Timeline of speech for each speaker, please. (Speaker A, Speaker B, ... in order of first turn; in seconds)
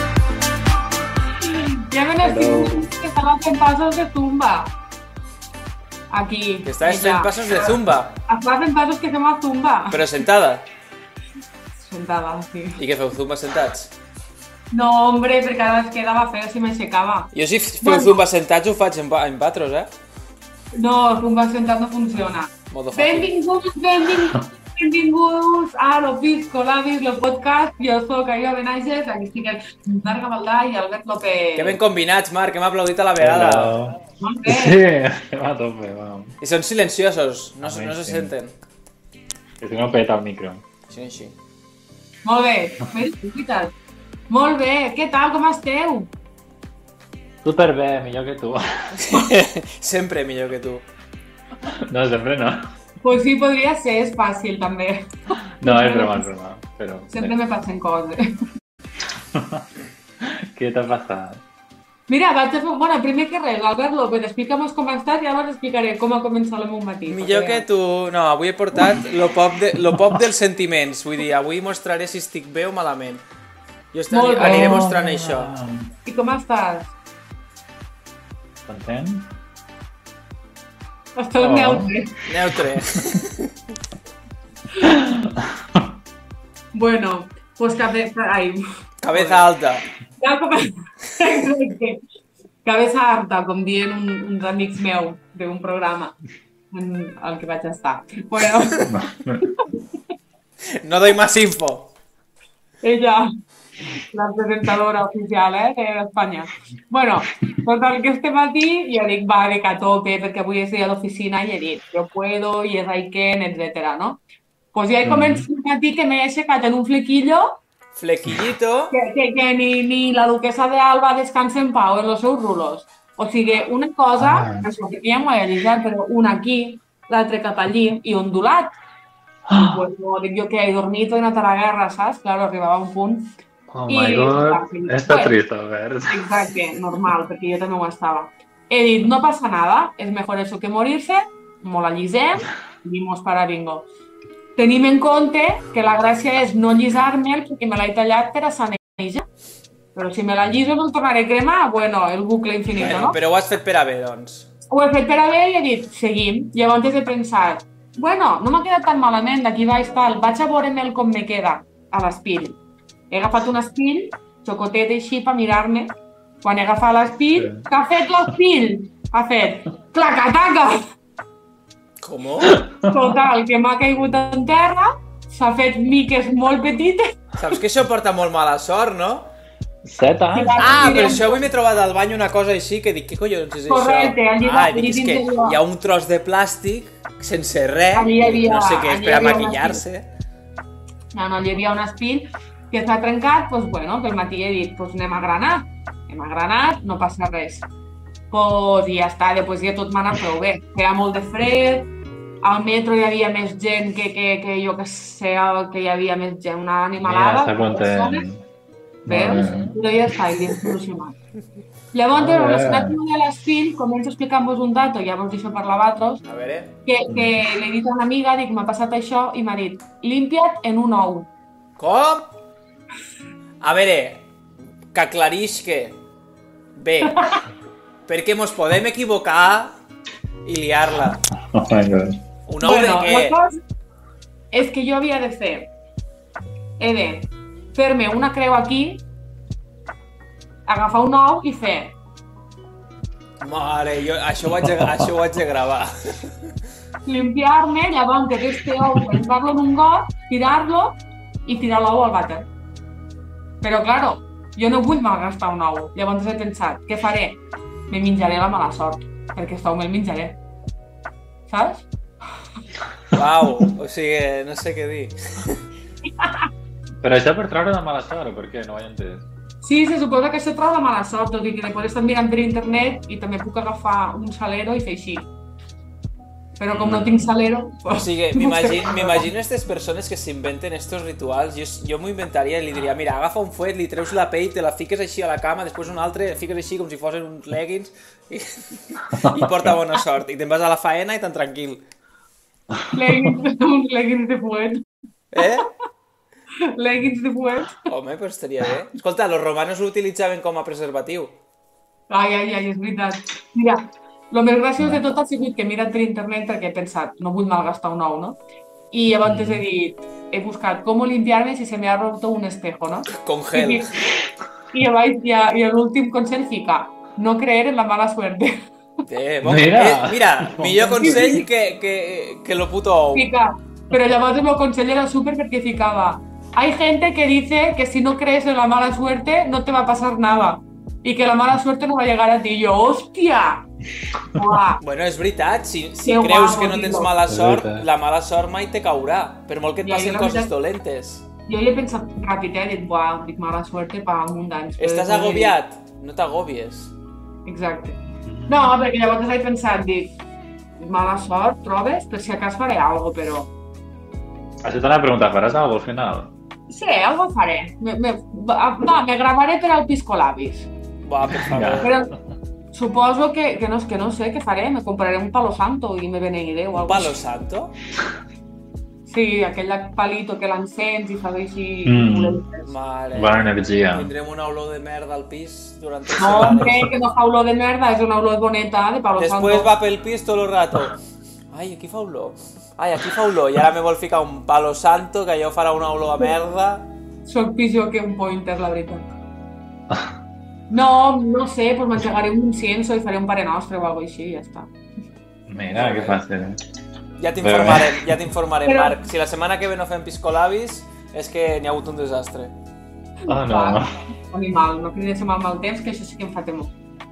Speaker A: 1.4-4.7, 6.1-7.8, 8.3-10.1, 11.8-12.8, 14.7-18.2, 20.7-31.8, 34.2-34.8, 42.2-43.7, 44.3-46.1, 53.0-55.1, 55.6-56.2, 57.1-58.4, 62.1-67.7, 74.1-74.9, 76.0-76.9, 81.2-82.2, 86.7-89.5, 90.2-92.0, 92.6-96.2, 96.7-99.8, 102.8-103.3, 104.1-114.2, 114.7-117.6, 118.9-128.8, 129.5-133.3, 133.9-135.3, 136.1-143.9, 144.6-149.3, 149.9-153.2, 154.7-162.6, 163.1-170.8, 172.9-177.6, 180.3-181.4, 183.7-185.6, 187.9-189.8, 191.1-197.7, 198.3-201.9, 202.4-208.3, 209.1-211.2, 211.9-216.2, 216.9-221.3, 227.0-227.4, 232.6-233.6, 234.5-235.7, 236.8-239.0, 240.7-242.0, 247.1-252.5, 253.6-260.4, 261.5-261.9, 266.2-266.4, 269.6-275.3, 276.6-279.3, 292.9-294.8, 296.6-297.9, 302.1-308.4, 308.9-313.9, 314.7-318.6, 321.0-321.5, 323.1-333.7, 334.3-334.8, 336.0-337.1, 339.8-340.5, 341.5-345.6, 347.5-350.2, 350.8-353.5, 356.7-360.7, 361.8-362.1, 362.7-367.1, 369.1-372.7, 376.2-379.7, 387.2-389.1, 390.7-394.7, 398.7-398.9, 403.2-406.7
Speaker B: 2.2-2.9, 33.2-36.4, 37.6-38.3, 39.6-40.6, 47.4-49.0, 51.7-52.6, 55.6-57.3, 59.1-59.7, 60.2-61.4, 68.8-69.0, 69.7-70.2, 74.4-75.9, 78.7-79.3, 81.4-81.9, 84.8-85.9, 98.9-99.4, 115.0-115.5, 124.2-124.7, 129.5-129.8, 133.7-136.6, 167.4-167.6, 172.4-173.1, 179.8-181.2, 207.0-208.4, 209.1-209.8, 212.1-213.0, 217.1-217.4, 231.1-232.2, 267.0-269.2, 276.7-277.3, 289.1-289.8, 292.7-293.3, 309.2-309.6, 319.4-321.4, 337.3-337.9, 348.2-348.7, 354.6-356.3, 361.4-361.9, 371.9-372.4, 373.1-374.1, 376.3-376.8, 395.5-396.6, 397.4-398.2, 403.3-403.9
Speaker C: 6.7-8.2, 9.9-10.7, 12.8-13.9, 17.3-19.9, 22.7-23.3, 31.6-33.8, 36.4-38.5, 40.9-41.3, 49.0-50.8, 67.1-73.2, 73.9-75.6, 82.3-83.5, 89.0-89.8, 100.7-101.9, 118.0-119.0, 152.8-154.5, 172.0-172.6, 177.4-179.3, 180.6-190.1, 216.2-216.8, 221.8-222.3, 223.6-224.3, 224.9-226.0, 226.8-227.3, 228.1-229.7, 230.4-231.2, 232.5-233.4, 243.4-246.3, 263.1-265.6, 277.9-291.8, 295.3-295.7, 297.9-301.4, 313.1-313.9, 319.1-323.3, 334.8-341.3, 344.8-346.9, 361.1-361.9, 366.7-367.7, 372.7-376.9, 379.2-381.0, 381.5-386.9, 395.7-396.2, 397.2-402.5